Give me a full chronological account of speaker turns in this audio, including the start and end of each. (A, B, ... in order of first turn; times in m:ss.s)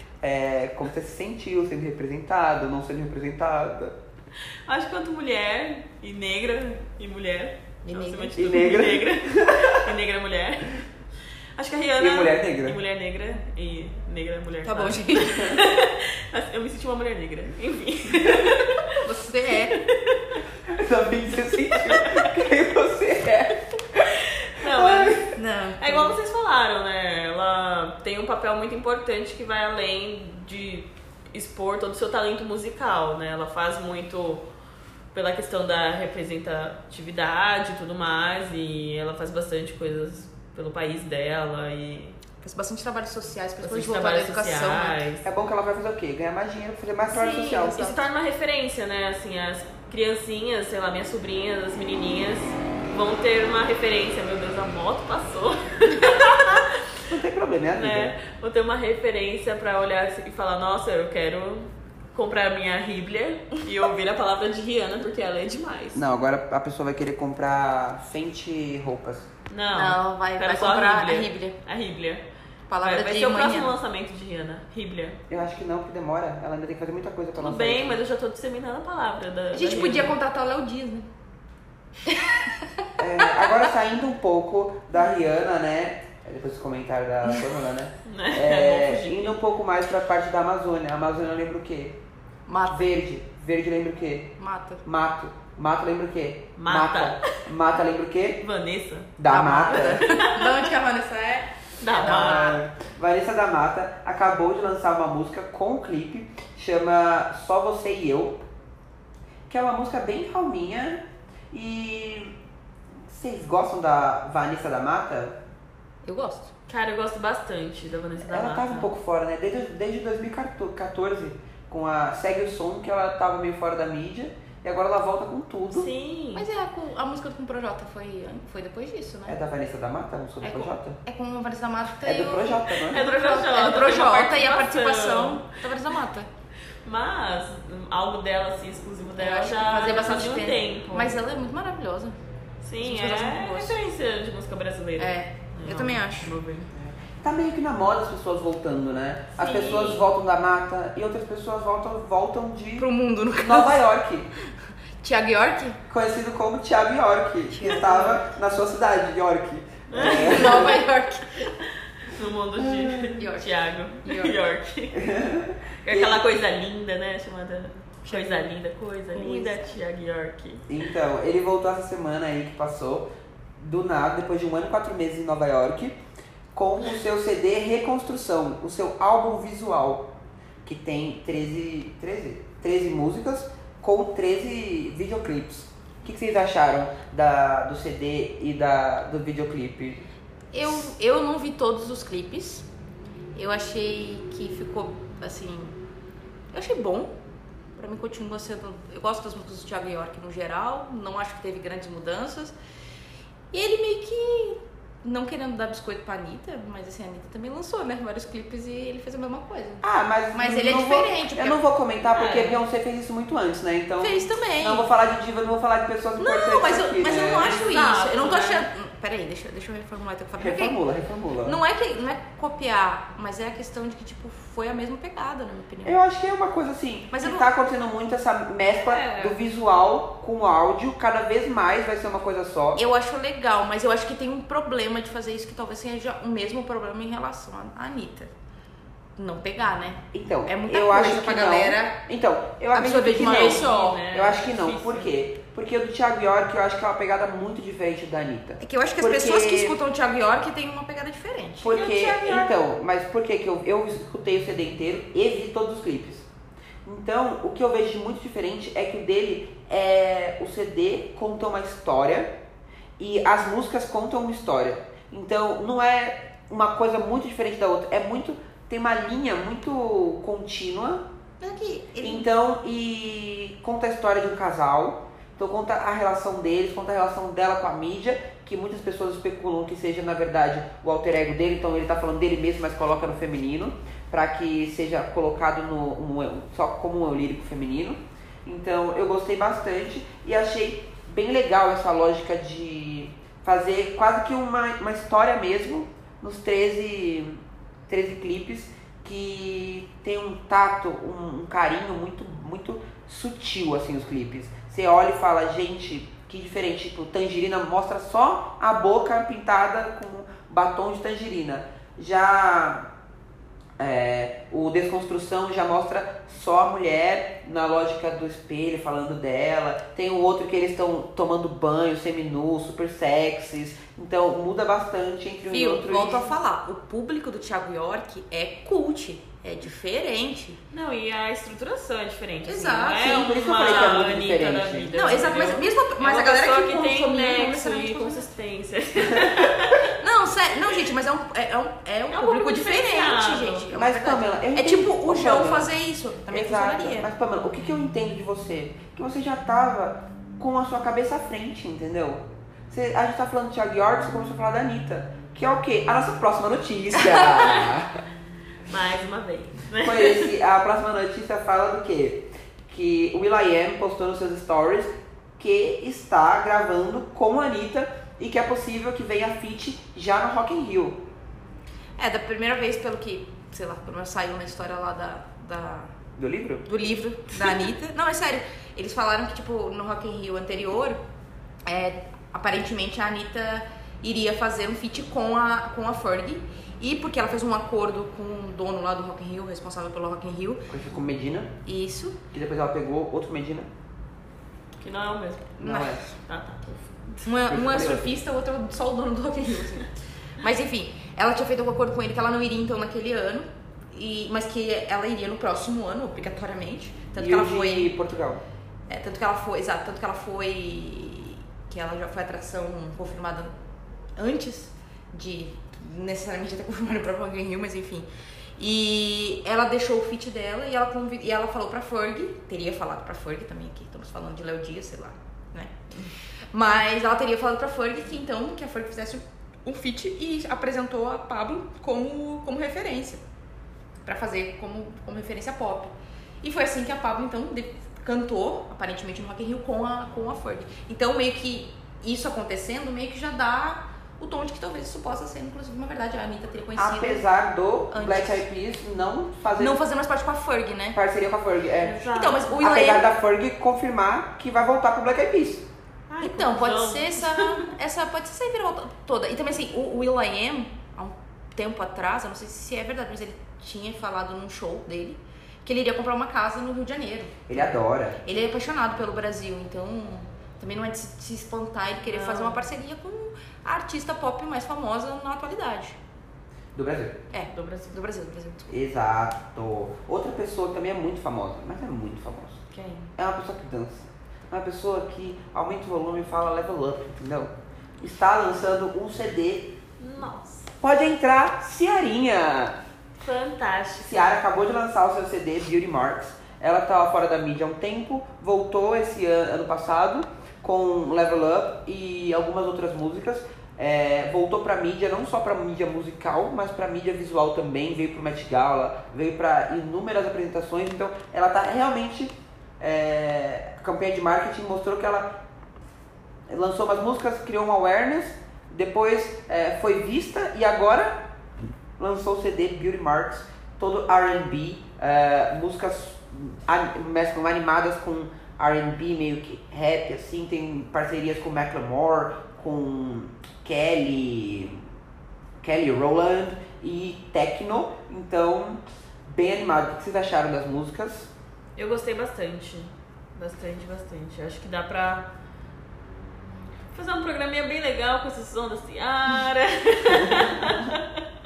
0:00.2-0:04.0 A
0:04.7-0:10.8 B
0:07.8-0:08.4 C
0:08.3-0:09.9 A
0:11.6-0:18.9 B
0:12.0-0:12.8 A
0:14.6-0:15.6 C
0:19.0-0:19.8 C
0:19.7-0:20.4 B
0:20.7-0:25.3 A
0:21.7-0:22.3 B
0:24.1-0:34.4 B
0:25.4-0:26.2 C
0:35.1-0:42.2 B
0:42.4-0:45.0 C
0:43.6-0:45.3 B
0:45.2-0:47.9 A
0:47.1-0:48.0 C
0:47.6-0:56.8 B
0:57.1-0:58.2 A
0:57.7-1:06.0 B
1:05.9-1:09.3 A
1:09.5-1:12.2 B
1:09.8-1:11.6 C
1:12.7-1:13.8 C
1:12.8-1:15.2 B
1:15.3-1:18.0 A
1:17.4-1:20.2 B
1:19.5-1:21.1 C
1:22.1-1:22.6 C
1:23.0-1:32.0 A
1:23.4-1:23.6 C
1:28.1-1:29.4 B
1:32.5-1:32.9 C
1:32.7-1:34.3 A
1:34.4-1:34.8 C
1:34.8-1:38.4 A
1:36.6-1:37.2 B
1:38.4-1:40.7 B
1:39.2-1:40.0 A
1:39.3-1:42.6 C
1:41.8-1:42.6 B
1:42.0-1:48.4 A
1:49.5-1:52.3 A
1:53.1-1:55.4 A
1:56.0-1:56.5 C
1:56.7-1:58.9 B
1:58.2-2:05.9 A
2:05.7-2:06.5 B
2:06.4-2:09.4 C
2:09.3-2:11.0 A
2:10.4-2:10.7 B
2:11.0-2:16.3 C
2:12.0-2:13.0 A
2:12.8-2:15.5 B
2:16.8-2:21.2 B
2:19.2-2:22.2 C
2:22.6-2:26.7 B
2:22.8-2:23.8 C
2:25.0-2:26.4 C
2:26.7-2:34.3 A
2:29.4-2:30.1 B
2:32.8-2:33.8 C
2:35.0-2:35.8 C
2:35.9-2:40.8 A
2:37.5-2:38.1 C
2:37.6-2:38.1 B
2:39.9-2:40.8 B
2:40.0-2:41.5 C
2:42.0-2:45.0 B
2:42.6-2:43.1 A
2:43.1-2:44.4 C
2:45.0-2:46.2 A
2:45.8-2:50.6 B
2:48.1-2:48.5 C
2:49.1-2:49.7 C
2:50.7-2:56.0 A
2:56.5-3:00.1 A
3:00.6-3:10.1 A
3:10.5-3:12.7 C
3:13.4-3:15.8 C
3:16.5-3:17.1 C
3:17.8-3:22.6 C
3:23.5-3:31.6 C
3:29.8-3:37.6 A
3:32.1-3:32.6 B
3:34.0-3:34.9 C
3:36.2-3:40.8 C
3:37.4-3:38.7 B
3:40.4-3:41.6 A
3:41.4-3:46.0 C
3:45.8-3:52.8 A
3:47.1-3:47.5 C
3:48.9-3:49.4 B
3:52.8-3:58.3 C
3:59.2-4:02.0 C
4:00.1-4:09.8 A
4:02.7-4:04.0 C
4:03.0-4:05.1 B
4:08.6-4:11.8 C
4:11.6-4:16.3 A
4:11.7-4:12.6 B
4:16.8-4:22.3 A
4:23.0-4:31.1 A
4:31.4-4:32.3 C
4:32.0-5:12.9 A
5:13.8-5:26.3 A
5:25.5-5:30.6 C
5:30.7-5:39.9 B
5:32.5-5:34.0 C
5:33.0-5:34.9 A
5:34.9-5:38.3 C
5:40.0-5:47.1 C
5:42.1-5:43.7 B
5:43.7-5:45.7 A
5:46.3-5:58.0 A
5:58.7-6:00.3 B
5:59.8-6:11.0 A
6:12.0-6:15.9 C
6:16.2-6:16.7 A
6:16.7-6:21.0 C
6:21.7-6:30.7 C
6:30.7-6:31.5 A
6:31.6-6:32.2 C
6:32.3-6:33.7 A
6:34.8-6:37.3 B
6:35.6-6:36.0 C
6:35.6-6:36.0 A
6:37.2-6:39.9 C
6:37.5-6:38.1 A
6:40.4-6:47.9 C
6:47.2-6:48.4 A
6:48.9-6:53.5 C
6:54.2-6:58.1 C
6:58.6-7:05.8 C
7:06.5-7:13.2 C
7:14.0-7:27.2 C
7:26.8-7:29.8 A
7:27.9-7:28.4 C
7:29.6-7:31.0 C
7:30.9-7:32.1 A
7:31.8-7:32.6 B
7:32.1-7:33.1 C
7:32.6-7:35.7 A
7:36.1-7:37.7 B
7:36.2-7:47.7 C
7:47.5-7:48.2 A
7:48.2-7:56.0 C
7:52.1-7:52.6 B
7:56.8-7:57.2 A
7:57.3-7:58.7 C
7:57.5-7:58.0 B
7:58.7-8:02.6 A
8:02.7-8:03.1 C
8:03.2-8:09.8 A
8:10.0-8:10.7 B
8:10.8-8:12.8 A
8:13.2-8:14.3 B
8:14.0-8:35.4 A
8:36.5-8:41.2 A
8:42.0-8:54.8 A
8:55.6-9:01.3 A
9:01.8-9:05.3 B
9:06.9-9:11.2 B